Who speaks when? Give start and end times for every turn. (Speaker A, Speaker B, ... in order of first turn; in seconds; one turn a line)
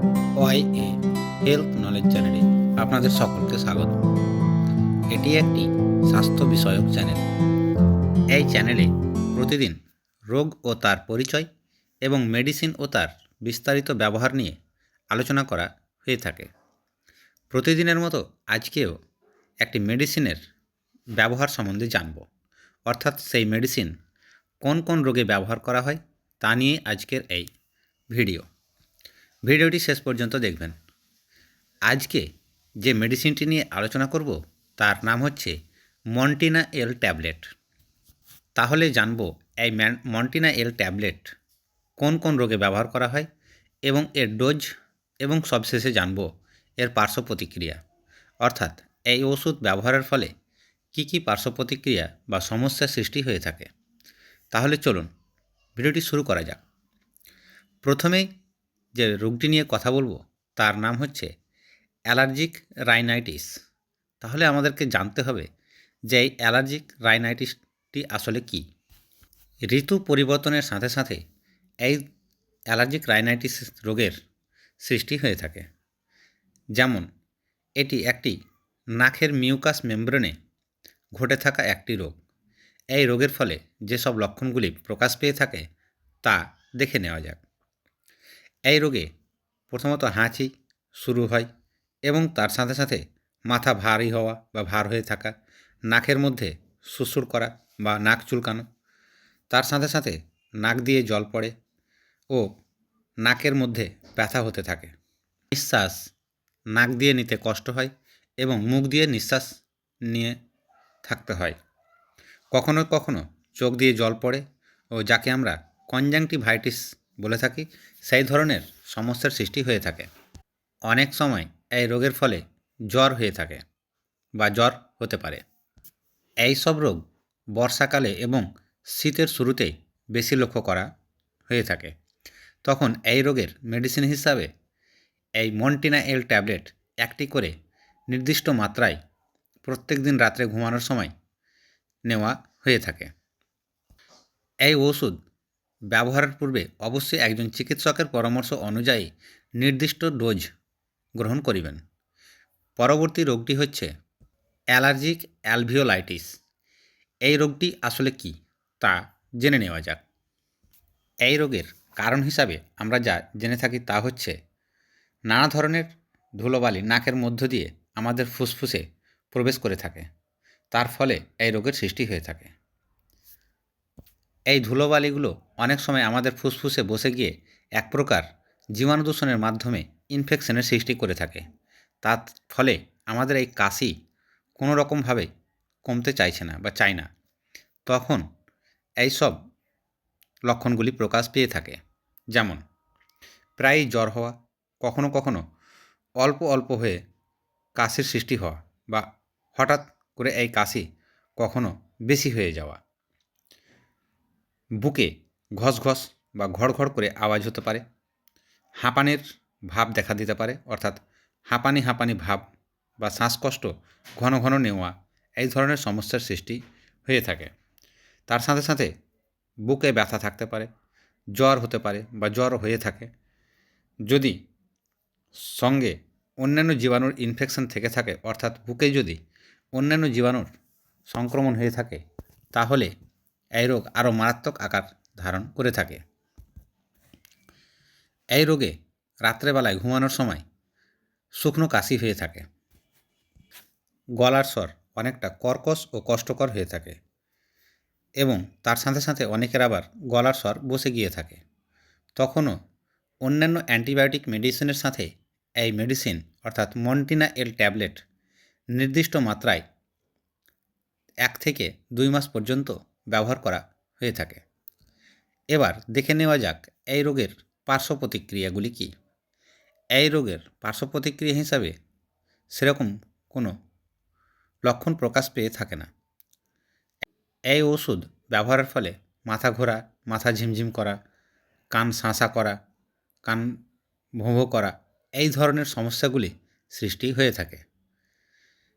Speaker A: 0.4-4.0
Speaker A: 5.1-7.2
Speaker A: 8.3-9.8
Speaker A: 10.3-11.5
Speaker A: 12.0-14.6
Speaker A: 15.1-16.5
Speaker A: 17.5-19.0
Speaker A: 19.6-20.4
Speaker A: 21.2-22.2
Speaker A: 22.9-23.9
Speaker A: 24.6-27.5
Speaker A: 28.1-28.5
Speaker A: 29.5-30.7
Speaker A: 31.9-32.2
Speaker A: 32.8-35.5
Speaker A: 36.1-37.5
Speaker A: 38.6-41.3
Speaker A: 42.0-43.3
Speaker A: 43.9-44.7
Speaker A: 45.2-46.3
Speaker A: 46.8-47.8
Speaker A: 48.4-50.3
Speaker A: 50.9-53.7
Speaker A: 54.5-55.1
Speaker A: 55.8-56.6
Speaker A: 57.8-58.3
Speaker A: 59.0-61.3
Speaker A: 62.1-63.5
Speaker A: 64.2-65.5
Speaker A: 66.1-68.6
Speaker A: 69.7-71.2
Speaker A: 72.7-74.2
Speaker A: 74.8-75.7
Speaker A: 76.8-77.1
Speaker A: 77.8-78.4
Speaker A: 79.0-80.3
Speaker A: 81.1-82.2
Speaker A: 82.9-85.7
Speaker A: 86.2-87.4
Speaker A: 88.7-89.1
Speaker A: 89.7-91.5
Speaker A: 92.1-95.3
Speaker A: 95.9-98.6
Speaker A: 99.5-101.5
Speaker A: 103.2-104.9
Speaker A: 105.5-106.0
Speaker A: 106.7-109.5
Speaker A: 110.1-110.4
Speaker A: 111.1-111.6
Speaker A: 112.5-114.4
Speaker A: 115.0-120.1
Speaker A: 120.9-123.6
Speaker A: 124.4-125.4
Speaker A: 126.4-127.0
Speaker A: 127.6-130.9
Speaker A: 131.5-131.9
Speaker A: 132.6-134.5
Speaker A: 135.4-137.5
Speaker A: 138.1-139.0
Speaker A: 139.6-141.1
Speaker A: 142.1-143.1
Speaker A: 144.6-145.2
Speaker A: 145.9-150.5
Speaker A: 151.2-151.8
Speaker A: 152.8-153.9
Speaker A: 154.7-156.3
Speaker A: 157.2-160.0
Speaker A: 161.2-164.3
Speaker A: 165.3-170.1
Speaker A: 170.7-172.5
Speaker A: 174.5-181.4
Speaker A: 182.0-183.9
Speaker A: 184.6-185.3
Speaker A: 185.8-187.1
Speaker A: 187.8-188.2
Speaker A: 189.0-189.4
Speaker A: 190.5-191.8
Speaker A: 192.3-192.6
Speaker A: 193.6-195.4
Speaker A: 196.2-197.0
Speaker A: 197.8-200.9
Speaker A: 201.4-202.8
Speaker A: 204.8-207.8
Speaker A: 208.8-211.0
Speaker A: 211.5-212.4
Speaker A: 213.0-217.5
Speaker A: 218.3-218.9
Speaker A: 219.7-220.7
Speaker A: 221.4-223.1
Speaker A: 224.1-224.4
Speaker A: 225.5-229.2
Speaker A: 229.8-230.5
Speaker A: 231.1-232.0
Speaker A: 232.5-232.9
Speaker A: 233.6-236.0
Speaker A: 238.3-240.4
Speaker A: 241.4-242.4
Speaker A: 244.2-247.0
Speaker A: 248.2-251.4
Speaker A: 252.2-252.6
Speaker A: 253.2-255.1
Speaker A: 255.6-258.0
Speaker A: 258.7-259.6
Speaker A: 261.2-264.4
Speaker A: 265.5-268.9
Speaker A: 269.9-271.7
Speaker A: 272.5-273.5
Speaker A: 274.6-275.9
Speaker A: 277.5-281.0
Speaker A: 281.7-282.6
Speaker A: 283.2-283.5
Speaker A: 284.2-287.6